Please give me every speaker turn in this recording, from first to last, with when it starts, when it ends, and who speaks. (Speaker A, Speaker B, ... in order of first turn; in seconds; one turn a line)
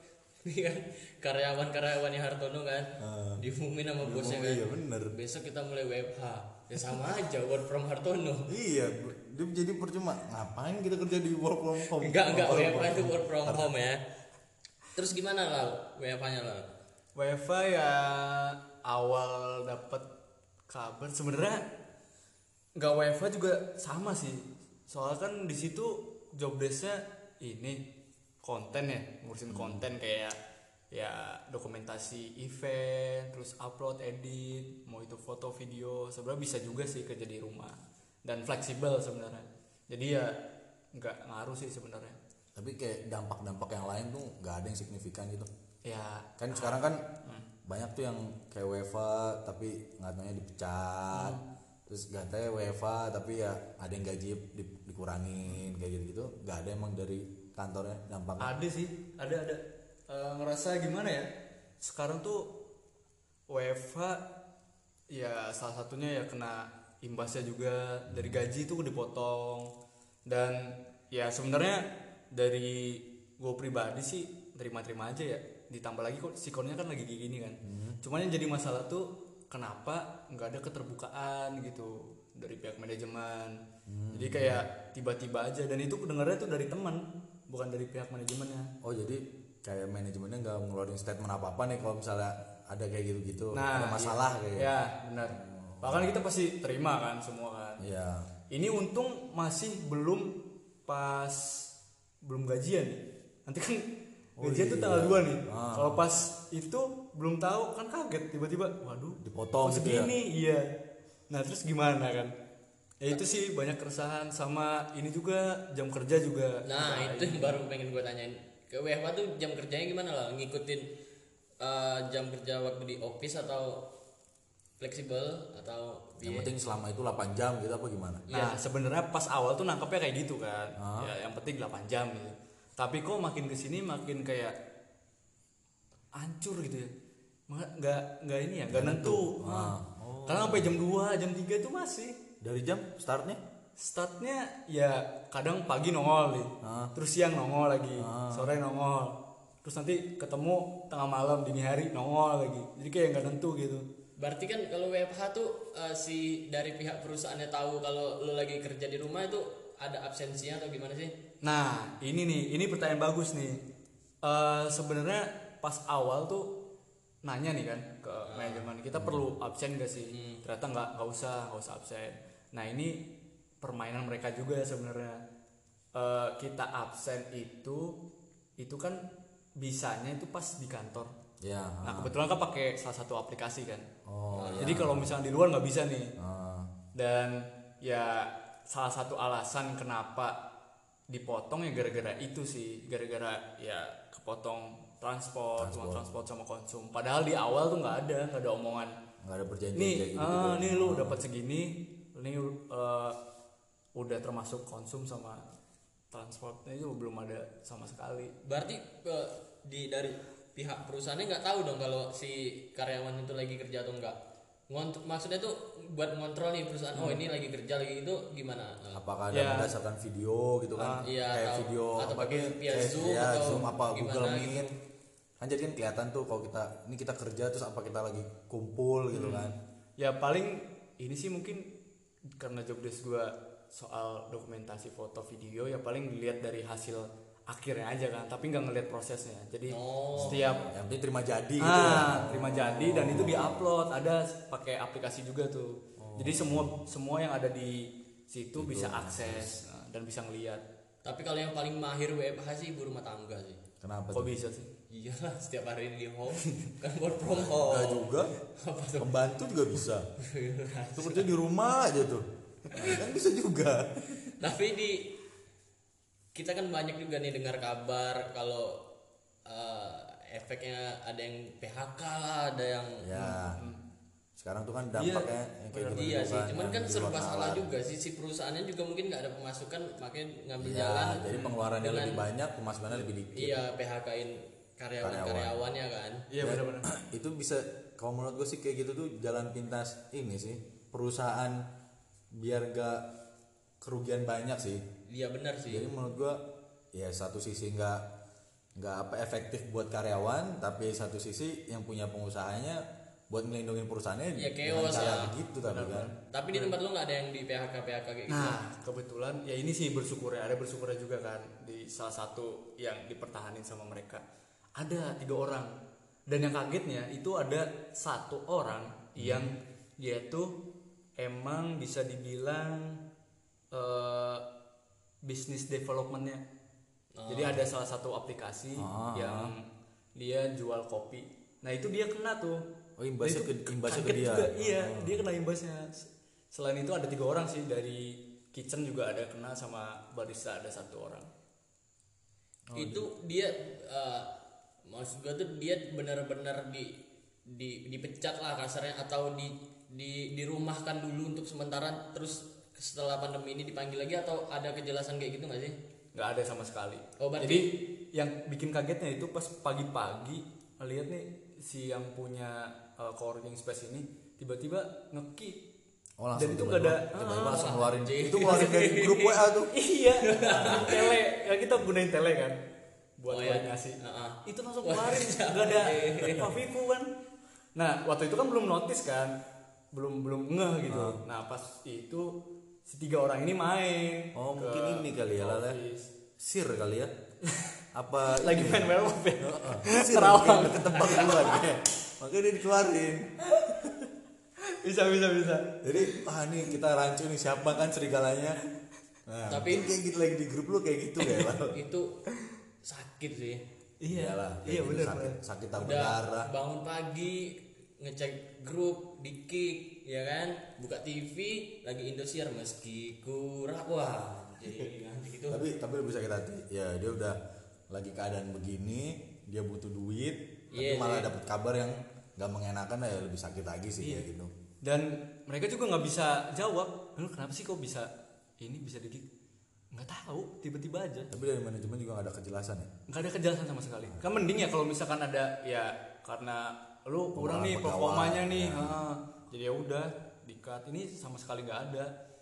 Speaker A: 0.4-8.5
Speaker B: 3.0-3.4
Speaker B: 4.0-5.1
Speaker B: 8.5-13.7
Speaker A: 11.9-14.0
Speaker A: 14.9-16.6
Speaker C: 17.1-20.1
Speaker C: 20.7-21.6
Speaker C: 22.8-27.8
Speaker C: 28.4-30.4
Speaker B: 29.5-29.8
Speaker C: 30.9-40.4
Speaker C: 40.9-42.2
Speaker B: 42.5-45.5
Speaker C: 45.8-47.5
Speaker B: 46.4-47.0
Speaker B: 47.6-51.4
Speaker C: 51.1-51.4
Speaker B: 51.9-58.5
Speaker C: 58.4-62.5
Speaker C: 63.5-64.2
Speaker C: 65.1-69.7
Speaker B: 68.1-68.4
Speaker C: 70.2-83.6
Speaker B: 77.6-78.0
Speaker B: 83.8-84.6
Speaker C: 84.1-88.7
Speaker B: 88.8-94.7
Speaker C: 93.5-97.8
Speaker B: 95.3-96.2
Speaker B: 97.8-98.3
Speaker C: 98.5-101.7
Speaker C: 102.2-103.9
Speaker B: 104.4-106.0
Speaker C: 104.4-110.7
Speaker B: 109.2-110.1
Speaker C: 111.3-112.3
Speaker C: 113.0-117.5
Speaker A: 116.6-120.9
Speaker A: 121.6-123.9
Speaker A: 124.8-126.5
Speaker B: 126.2-128.2
Speaker A: 128.3-128.6
Speaker C: 128.3-134.6
Speaker B: 130.8-131.1
Speaker C: 136.2-136.9
Speaker C: 137.5-139.7
Speaker B: 138.7-140.8
Speaker C: 140.3-142.2
Speaker B: 142.4-143.4
Speaker C: 143.8-153.8
Speaker B: 146.6-146.9
Speaker B: 148.0-148.5
Speaker A: 154.2-161.1
Speaker C: 161.4-163.6
Speaker C: 164.2-166.5
Speaker C: 167.2-173.0
Speaker A: 168.3-168.7
Speaker B: 168.9-169.2
Speaker A: 170.1-170.4
Speaker C: 173.6-175.2
Speaker C: 175.9-178.0
Speaker C: 178.6-179.0
Speaker C: 179.6-181.1
Speaker B: 181.4-182.1
Speaker C: 181.8-183.9
Speaker B: 184.0-185.1
Speaker A: 184.3-184.8
Speaker C: 184.6-186.1
Speaker B: 186.2-186.7
Speaker C: 186.9-190.4
Speaker C: 191.1-198.9
Speaker B: 195.6-196.1
Speaker B: 199.2-201.2
Speaker C: 199.7-203.2
Speaker C: 203.9-205.5
Speaker C: 206.1-208.3
Speaker A: 208.4-214.2
Speaker A: 214.7-219.0
Speaker C: 216.9-217.2
Speaker B: 218.9-224.7
Speaker C: 219.3-219.7
Speaker C: 220.8-221.0
Speaker A: 221.0-224.7
Speaker B: 225.4-229.5
Speaker C: 229.1-231.7
Speaker C: 232.4-240.7
Speaker A: 239.7-240.6
Speaker B: 240.1-243.7
Speaker C: 241.6-250.6
Speaker B: 246.0-246.8
Speaker B: 248.5-249.5
Speaker A: 251.0-253.6
Speaker B: 253.8-254.4
Speaker C: 254.1-254.7
Speaker A: 254.9-259.2
Speaker B: 257.2-258.3
Speaker B: 259.0-260.1
Speaker A: 260.2-261.3
Speaker B: 260.9-264.3
Speaker A: 262.7-263.0
Speaker A: 264.4-265.1
Speaker A: 266.3-268.8
Speaker A: 269.4-273.2
Speaker B: 273.0-273.6
Speaker C: 273.2-273.8
Speaker B: 274.4-277.7
Speaker C: 274.9-276.2
Speaker A: 275.9-282.2
Speaker B: 280.6-283.6
Speaker A: 283.3-286.2
Speaker B: 285.0-285.6
Speaker C: 286.3-286.9
Speaker B: 286.4-291.6
Speaker B: 292.3-293.1
Speaker B: 293.8-294.8
Speaker A: 295.1-295.9
Speaker B: 295.7-296.4
Speaker B: 296.9-298.0
Speaker B: 298.8-306.1
Speaker A: 304.4-305.4
Speaker C: 305.0-306.8
Speaker A: 306.3-308.6
Speaker C: 308.3-314.2
Speaker C: 314.8-315.7
Speaker C: 316.3-320.5
Speaker B: 319.2-319.5
Speaker C: 321.2-323.0
Speaker C: 323.7-324.4
Speaker C: 325.2-326.4
Speaker A: 327.1-327.6
Speaker C: 327.3-332.6
Speaker B: 328.8-329.5
Speaker B: 333.0-335.2
Speaker C: 333.2-341.3
Speaker B: 342.7-343.1
Speaker A: 342.7-344.3
Speaker A: 344.9-355.8
Speaker C: 356.1-365.6
Speaker A: 357.2-357.7
Speaker B: 366.2-369.7
Speaker C: 366.4-367.6
Speaker A: 367.3-369.4
Speaker C: 369.7-372.6
Speaker A: 370.2-371.1
Speaker B: 370.3-371.0
Speaker C: 373.2-377.1
Speaker A: 373.3-376.5
Speaker C: 377.8-379.4
Speaker C: 379.9-386.1
Speaker B: 380.9-381.2
Speaker B: 384.3-385.8
Speaker B: 386.4-387.1
Speaker C: 387.4-387.7
Speaker B: 387.9-394.1
Speaker C: 388.3-390.1
Speaker A: 389.9-391.6
Speaker C: 394.6-396.2
Speaker B: 395.8-398.6
Speaker B: 399.3-401.8
Speaker A: 399.5-399.9
Speaker A: 401.7-402.2
Speaker A: 402.8-403.6
Speaker C: 404.0-405.4
Speaker B: 404.1-406.5
Speaker A: 405.8-415.6
Speaker B: 415.5-417.4
Speaker B: 417.9-424.5
Speaker A: 420.7-421.3
Speaker C: 424.0-424.3
Speaker C: 424.8-428.1
Speaker C: 428.6-429.3
Speaker C: 429.9-431.3
Speaker B: 431.3-432.9
Speaker C: 433.1-442.1
Speaker B: 437.3-439.0